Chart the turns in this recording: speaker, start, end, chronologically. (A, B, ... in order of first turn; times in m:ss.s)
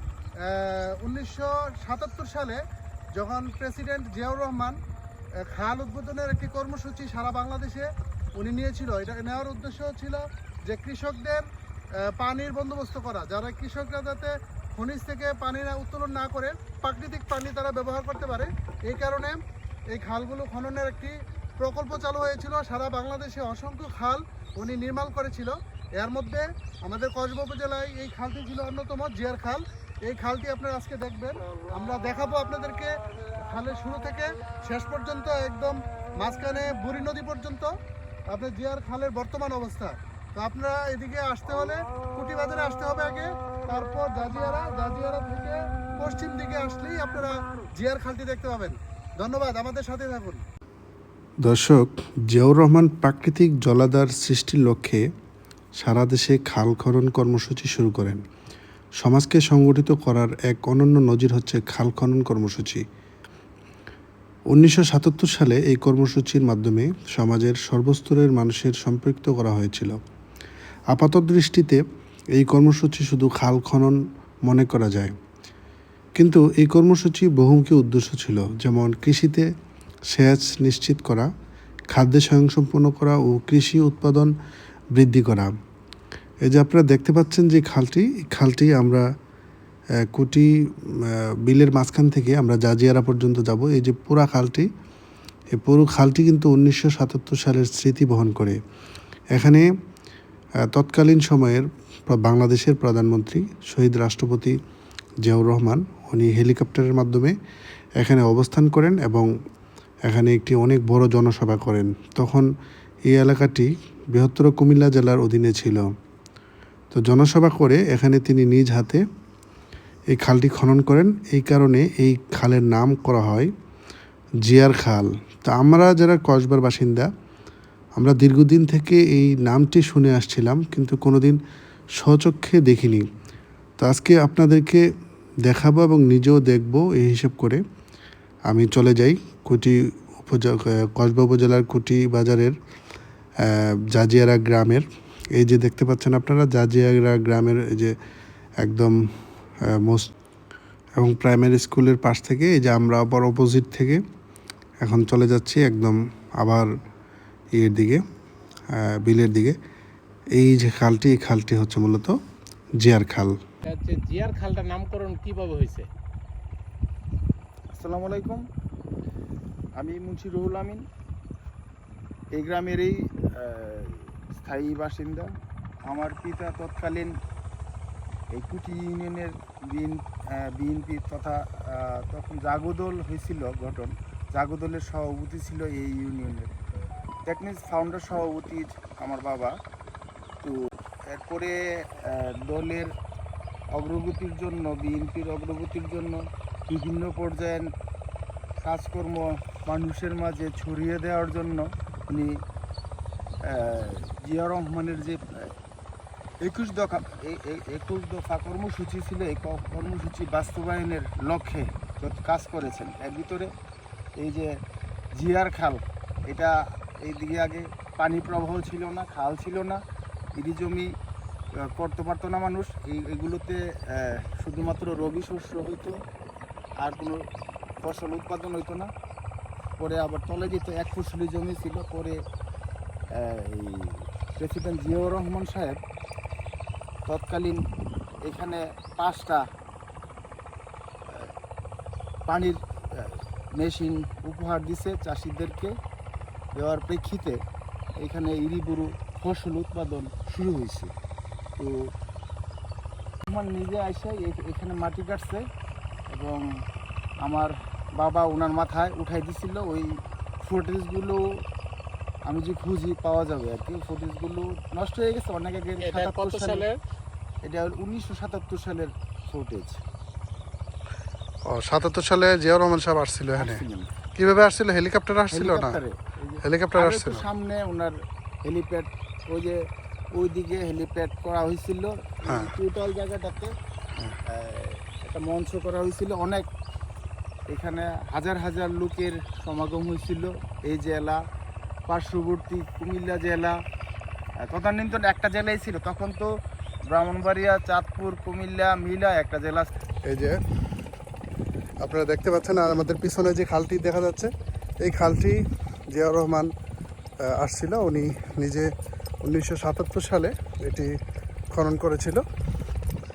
0:00.4-0:02.6 A
0:03.2-0:04.8 A
0:05.4-0:11.5 A
0:12.0-0:19.4 A
0:19.9-0:37.7 A
0:38.3-0:50.4 A
0:51.4-0:55.0 B
0:55.8-0:58.2 B
0:59.0-1:02.8 B
1:04.5-1:10.0 B
1:10.9-1:11.8 B
1:12.4-1:15.1 B
1:16.2-1:19.5 B
1:20.1-1:21.3 B
1:21.9-1:24.3 B
1:25.0-1:25.5 B
1:26.5-1:29.1 B
1:30.1-1:34.7 B
1:35.6-1:38.6 B
1:39.3-1:39.7 B
1:40.7-1:44.6 B
1:45.2-1:47.3 B
1:48.0-1:49.3 B
1:50.1-1:52.5 B
1:53.1-1:55.9 B
1:56.9-1:59.0 B
2:00.1-2:03.5 B
2:04.5-2:07.1 B
2:08.0-2:11.4 B
2:12.0-2:13.0 B
2:13.8-2:14.8 B
2:15.5-2:17.6 B
2:18.5-2:22.6 B
2:23.4-2:24.8 B
2:25.4-2:27.9 B
2:28.6-2:29.0 B
2:29.7-2:30.1 B
2:31.0-2:34.0 B
2:34.8-2:36.7 B
2:37.6-2:38.0 B
2:38.7-2:39.6 B
2:40.4-2:42.2 B
2:42.8-2:43.3 B
2:43.7-2:45.9 C
2:47.7-2:48.4 D
2:49.8-2:50.8 D
2:52.3-2:55.3 D
2:55.8-2:57.2 D
2:58.3-3:06.5 D
3:07.3-3:09.6 D
3:10.4-3:12.9 D
3:13.7-3:17.7 D
3:18.6-3:22.4 D
3:23.4-3:25.5 D
3:26.4-3:33.5 D
3:34.2-3:34.5 D
3:35.1-3:39.8 D
3:40.3-3:40.9 D
3:41.6-3:46.0 D
3:46.8-3:47.2 D
3:47.8-3:48.9 D
3:49.8-3:52.2 D
3:53.1-3:55.8 D
3:57.1-3:57.6 D
3:58.2-3:59.4 D
4:01.1-4:01.3 D
4:02.3-4:05.8 D
4:06.5-4:07.4 D
4:08.0-4:10.9 D
4:11.6-4:11.9 D
4:13.3-4:15.4 D
4:16.1-4:16.5 D
4:17.2-4:21.2 D
4:22.3-4:26.7 D
4:25.8-4:26.8 C
4:27.4-4:29.8 D
4:31.5-4:33.6 B
4:33.4-4:33.9 D
4:34.2-4:35.8 B
4:35.3-4:39.6 D
4:36.4-4:37.2 B
4:40.1-4:43.5 D
4:44.3-4:46.5 D
4:47.5-4:51.2 D
4:51.9-4:53.6 D
4:54.4-4:56.3 D
4:56.9-4:59.7 D
5:00.1-5:00.4 B
5:01.8-5:04.3 B
5:04.8-5:05.4 B
5:05.9-5:06.5 B
5:07.3-5:08.7 B
5:09.2-5:10.9 B
5:11.6-5:12.2 B